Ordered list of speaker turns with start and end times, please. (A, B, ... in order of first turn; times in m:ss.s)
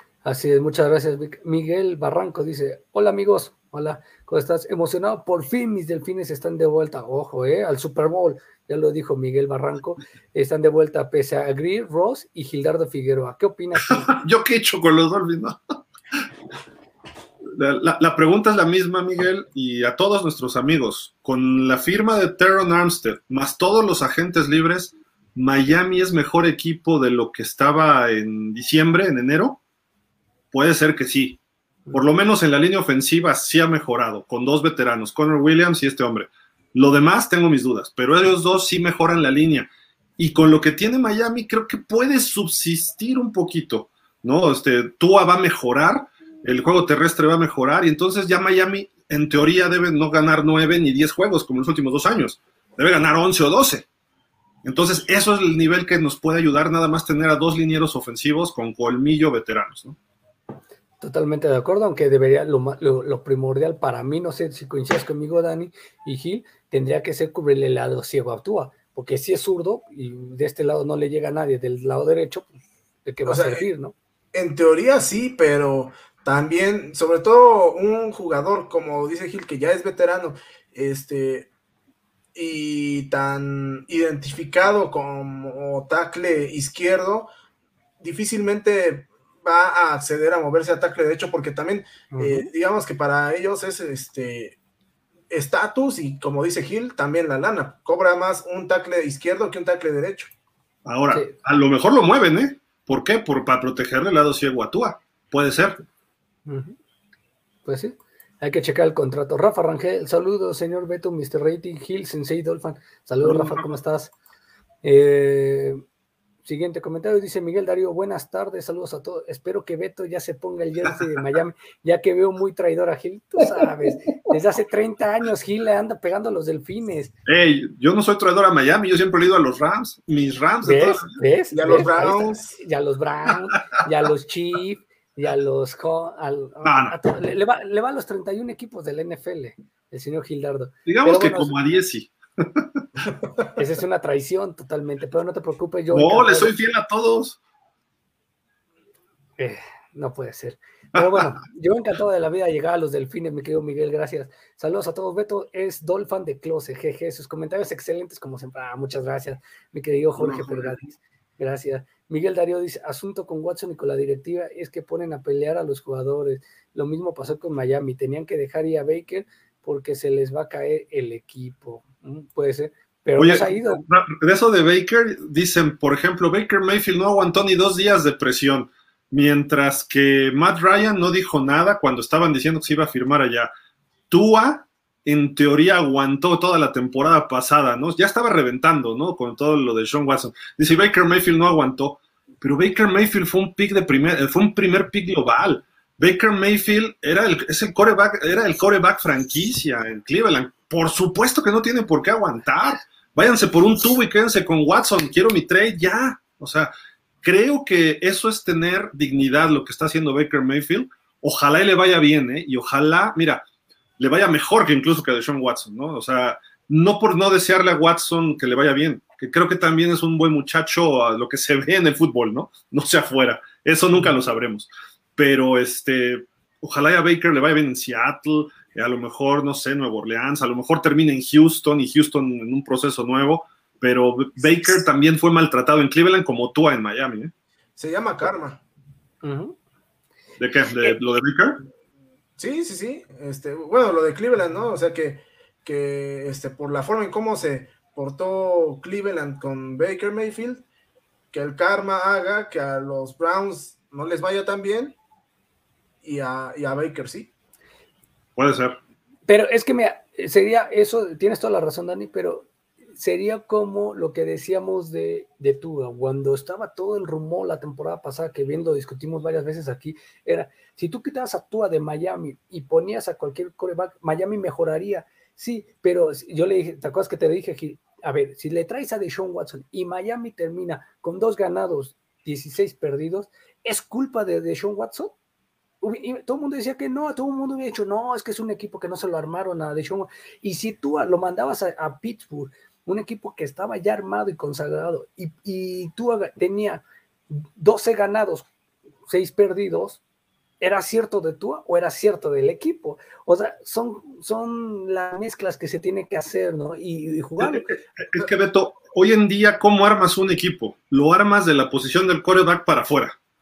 0:00.2-0:14.2 A
0:14.1-0:15.8 B
0:17.5-0:29.6 B
0:30.5-0:31.4 B
0:31.9-0:53.9 B
0:54.6-1:00.0 B
1:01.0-1:12.5 A
1:13.1-1:14.0 A
1:13.3-1:13.7 C
1:14.3-1:21.5 C
1:22.4-1:27.3 C
1:28.0-1:34.6 C
1:32.1-1:32.5 A
1:35.3-1:40.3 C
1:40.8-1:45.8 B
1:46.5-1:46.8 A
1:47.6-1:54.1 A
1:53.2-1:53.7 B
1:54.8-1:55.8 A
1:56.4-2:07.1 A
2:07.3-2:11.2 B
2:10.6-2:21.6 A
2:11.5-2:12.6 C
2:16.6-2:17.0 B
2:20.9-2:23.1 B
2:23.6-2:26.5 A
2:25.9-2:27.4 B
2:29.4-2:53.8 A
2:30.9-2:31.3 B
2:40.2-2:40.8 B
2:53.2-3:03.5 B
3:04.1-3:26.7 B
3:27.2-3:33.4 B
3:34.0-3:57.3 B
3:57.8-3:58.6 C
3:59.2-3:59.6 A
4:00.4-4:01.6 B
4:02.4-4:10.6 C
4:11.3-4:15.0 C
4:16.0-4:17.3 C
4:18.4-4:18.8 B
4:19.3-4:45.1 A
4:45.8-4:58.5 A
4:59.1-5:00.0 A
5:00.6-5:07.7 A
5:07.4-5:13.2 B